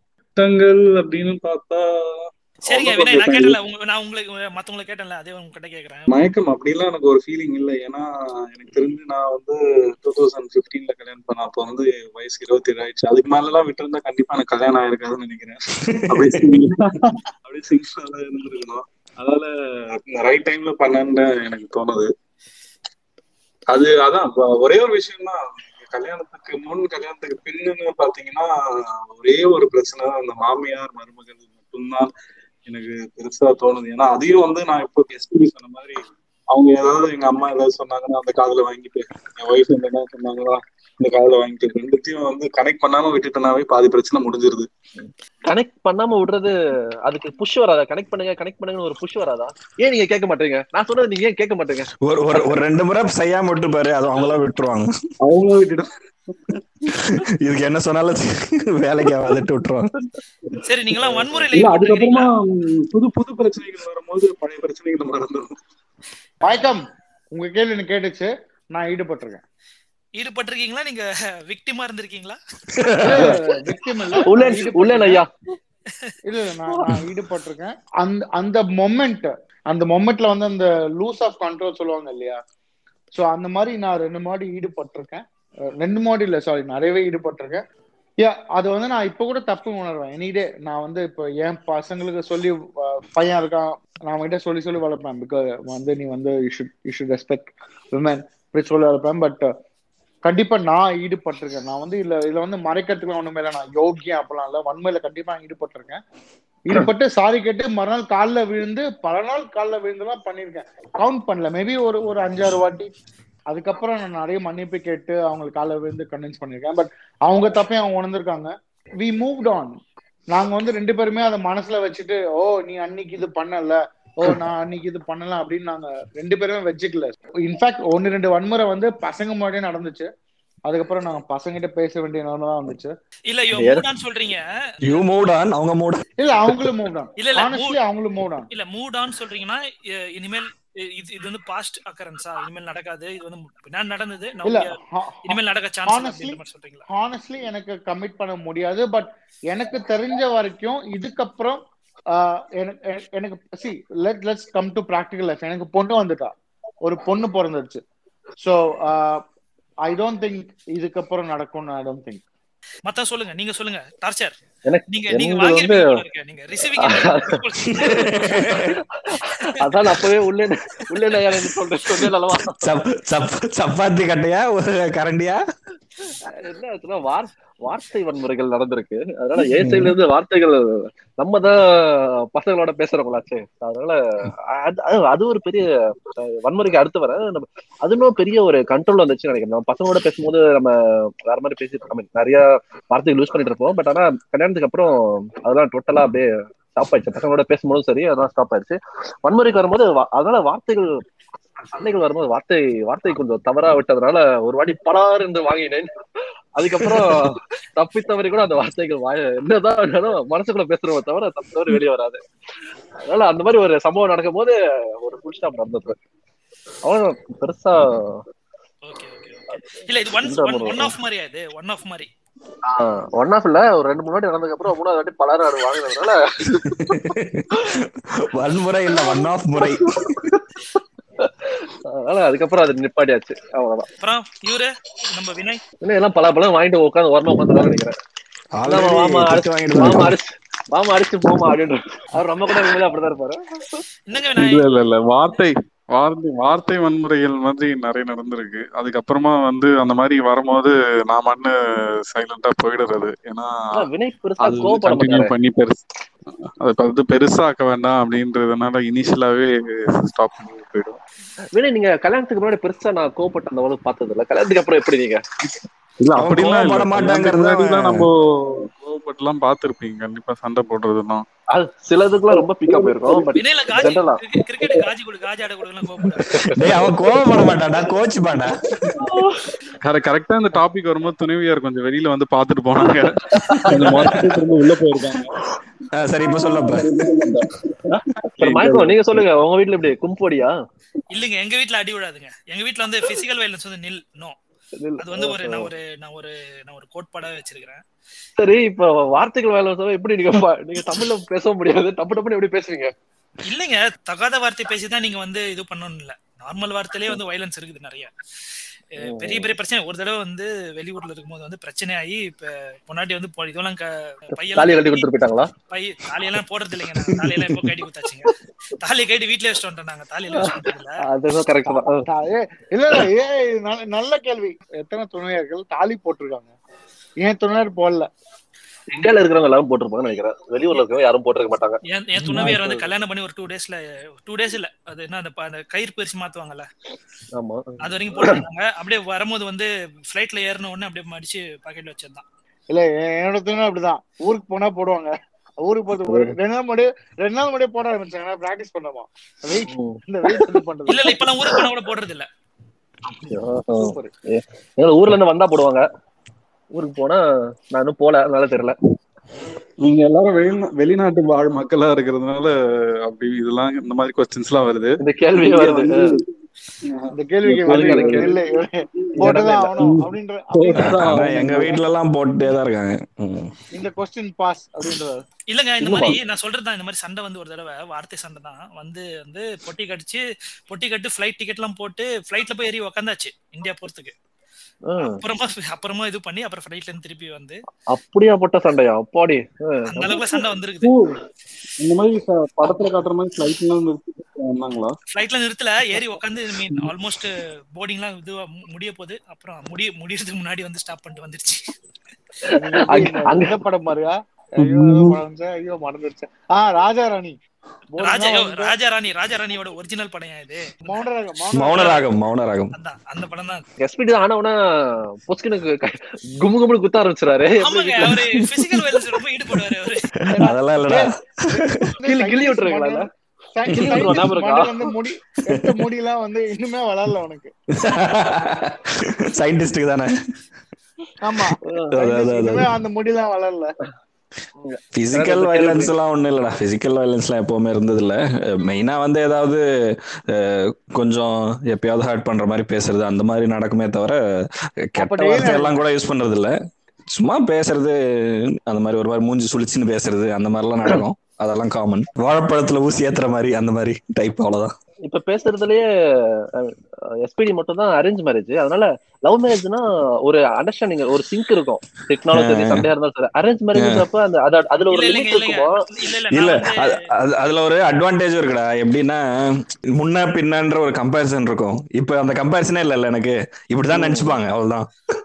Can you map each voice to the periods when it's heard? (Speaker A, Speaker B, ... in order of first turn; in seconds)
Speaker A: 0.3-3.6, 6.1-15.6, 16.1-22.1, 23.7-28.5, 29.1-32.1, 32.7-36.0, 36.5-44.7, 55.2-56.6, 61.5-65.5, 244.4-251.5, 252.1-253.9, 254.4-255.8, 256.6-261.0, 266.0-271.2, 272.3-273.4, 278.8-279.3, 279.8-285.4, 286.3-289.3, 359.8-366.2, 366.8-368.4, 369.8-371.8, 390.8-391.2, 391.8-394.9, 404.6-405.2
Speaker B: 2.6-6.1, 60.6-62.3, 66.5-66.7, 70.2-72.4, 133.3-135.1, 137.2-137.8, 138.5-144.7, 145.2-146.8, 162.8-164.3, 164.9-170.0, 218.8-222.1, 234.0-235.6, 244.1-244.7, 273.4-276.5, 283.7-284.0, 291.1-294.4, 295.0-297.8, 303.4-308.1, 309.0-315.1, 315.6-321.0, 331.9-336.7, 337.8-342.2, 350.9-352.3, 375.5-384.1, 385.0-387.6, 389.9-390.9, 395.1-401.6, 408.0-411.0, 411.6-412.1, 412.7-413.6, 417.6-420.1, 464.9-466.9
Speaker C: 15.9-16.6, 52.0-54.9, 57.4-59.9, 72.8-73.3, 134.8-136.0, 167.7-168.8, 172.6-175.4, 179.6-179.9, 226.6-230.2, 238.6-240.1, 266.1-268.1, 276.5-278.6, 285.9-286.9, 370.8-373.5, 411.5-412.7, 418.4-419.0, 420.2-421.9, 423.7-424.3, 425.5-425.8, 427.8-430.1, 431.9-432.7, 434.9-439.6, 440.3-444.2, 444.9-446.5, 447.1-454.7, 462.3-462.9, 463.7-464.0, 466.3-474.9
Speaker D: 45.5-46.5, 47.0-51.9, 61.0-61.5, 74.2-75.3, 133.5-133.8, 164.7-166.0, 166.8-167.4, 169.1-172.7, 176.4-184.0, 184.5-200.9, 201.7-205.9, 206.6-212.2, 213.0-216.0, 216.8-218.2, 220.2-220.9, 222.7-226.8, 229.0-233.9, 235.8-237.9, 238.7-243.8, 253.7-255.3, 261.6-265.2, 271.5-274.2, 278.9-279.4, 282.8-284.3, 288.4-290.6, 294.8-295.7, 298.4-302.9, 309.0-309.5, 314.5-315.5, 320.3-322.1, 328.9-332.9, 337.4-338.4, 346.1-346.3, 349.7-350.5, 353.1-355.8, 356.7-358.8, 365.0-366.2, 367.6-368.3, 369.2-370.0, 375.8-376.2, 384.9-385.2, 387.9-390.2, 392.6-393.0, 402.4-403.5, 413.8-418.2, 422.0-423.1, 423.7-424.9, 431.6-431.9, 434.6-435.9, 455.1-465.7, 473.9-474.3
Speaker E: 66.4-69.4, 73.0-75.2, 76.2-82.4, 83.1-85.2, 85.8-87.6, 88.2-99.5, 100.2-106.0, 106.7-112.9, 113.5-119.7, 120.3-130.1, 130.6-132.9, 136.2-138.5, 144.4-151.6, 152.1-157.8, 158.4-159.2, 159.8-162.2, 321.7-326.5, 327.2-328.1, 342.7-351.2, 353.7-354.1, 367.1-371.0, 373.7-375.2, 402.5-407.4, 407.9-408.7, 410.9-412.0, 420.3-427.5, 431.2-433.7, 445.0-445.8